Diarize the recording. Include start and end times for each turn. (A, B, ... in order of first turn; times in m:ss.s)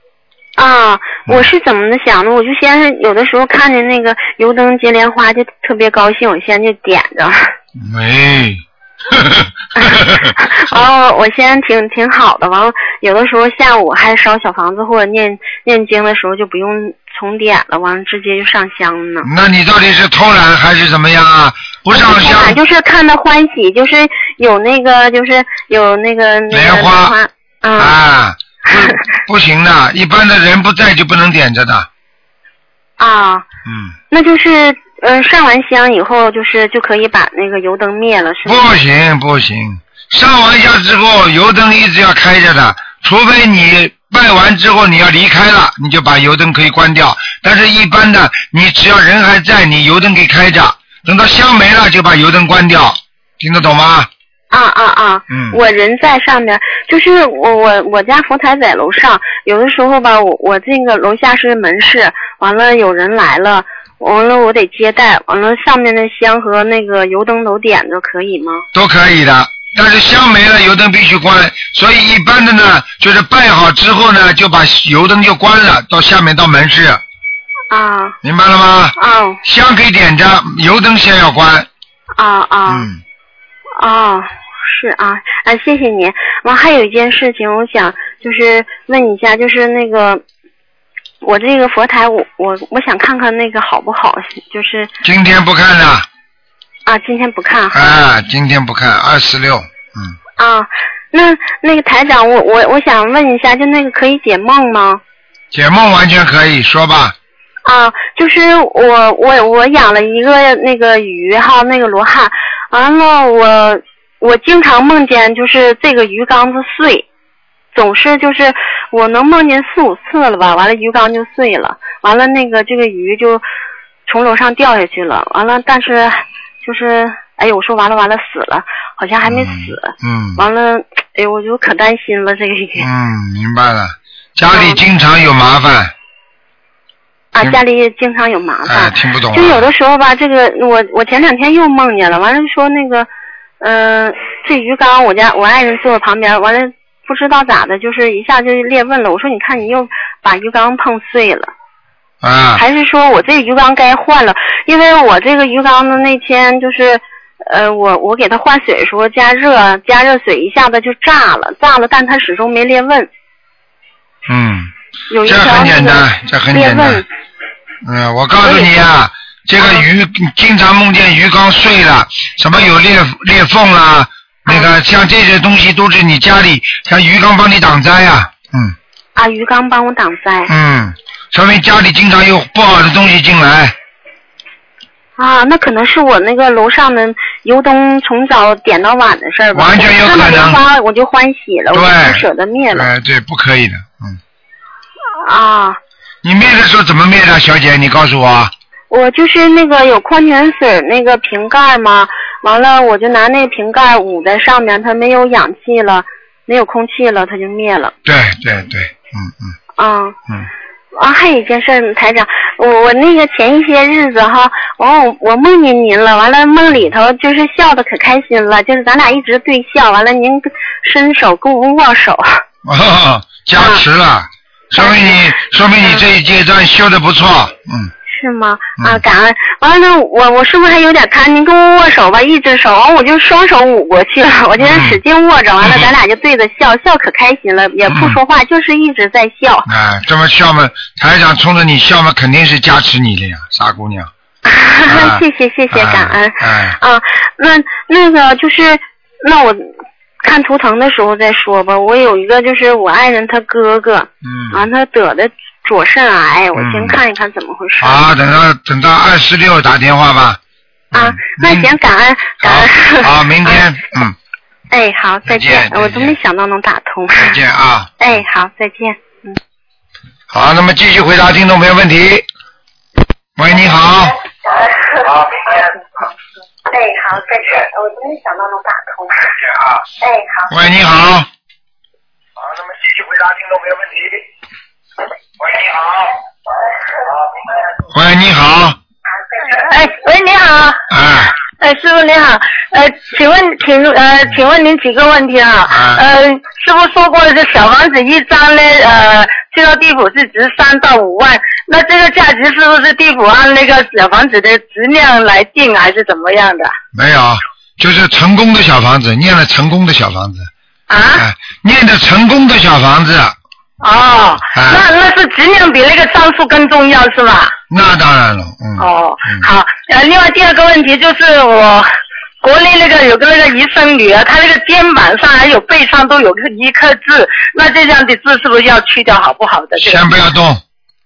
0:00.6-0:07.5 A
0:07.8-0:10.3 B
0:09.8-0:19.3 A
0:19.2-0:22.6 B
0:21.9-0:28.0 A
0:26.5-0:27.2 B
0:27.8-0:31.9 B
0:33.0-0:33.5 A
0:33.7-0:34.0 B
0:34.1-0:38.6 A
0:38.4-0:54.1 B
0:54.5-1:08.7 A
0:55.3-0:55.6 B
1:08.7-1:17.0 B
1:17.7-1:18.2 A
1:18.2-1:21.7 B
1:19.0-1:19.4 A
1:22.2-1:22.9 A
1:22.7-1:23.0 B
1:23.8-1:30.2 A
1:31.2-1:34.9 A
1:35.0-1:36.1 B
1:36.9-1:37.9 A
1:37.7-1:40.2 B
1:40.4-1:45.0 A
1:45.5-1:47.2 B
1:47.7-1:57.1 A
1:57.7-2:03.4 A
2:04.1-2:12.9 A
2:09.2-2:10.4 B
2:12.8-2:15.9 B
2:14.5-2:14.8 A
2:17.3-2:31.5 A
2:18.7-2:19.7 B
2:32.2-2:32.6 B
2:32.6-2:43.1 A
2:44.3-2:44.7 B
2:45.1-2:47.1 A
2:45.2-2:47.0 B
2:47.8-2:58.8 B
2:48.4-2:48.7 A
2:49.6-2:49.8 A
2:59.2-3:00.5 A
3:00.5-3:03.7 B
3:05.2-3:12.9 A
3:09.5-3:10.6 B
3:11.7-3:14.2 B
3:15.2-3:15.8 A
3:16.2-3:18.5 B
3:18.9-3:28.0 A
3:28.0-3:29.6 B
3:29.8-3:30.2 A
3:31.0-3:42.4 A
3:42.6-3:47.9 B
3:43.6-3:43.8 A
3:44.8-3:46.0 A
3:48.1-3:59.7 A
3:54.6-3:55.0 B
3:55.6-3:55.9 B
3:57.9-3:58.2 B
3:59.7-4:04.1 B
4:04.4-4:09.7 A
4:04.9-4:06.8 B
4:10.2-4:18.1 A
4:14.2-4:14.6 B
4:16.6-4:17.0 B
4:17.8-4:20.4 B
4:20.9-4:21.8 B
4:20.9-4:23.6 A
4:22.4-4:24.2 B
4:24.7-4:27.4 A
4:25.3-4:26.2 B
4:27.2-4:27.9 B
4:28.0-4:29.4 A
4:30.3-4:32.2 B
4:33.4-4:34.2 B
4:34.5-4:35.5 A
4:36.7-4:39.4 A
4:40.0-4:40.5 A
4:40.5-4:41.3 B
4:47.9-4:48.8 B
4:49.5-4:50.8 C
4:50.9-4:51.3 B
4:51.6-5:06.7 C
4:55.7-4:56.0 B
5:06.9-5:10.5 B
5:10.9-5:11.3 C
5:11.2-5:13.4 B
5:13.8-5:17.6 C
5:14.5-5:14.8 B
5:17.7-5:19.5 B
5:18.8-5:21.9 C
5:22.4-5:30.1 C
5:29.8-5:30.6 B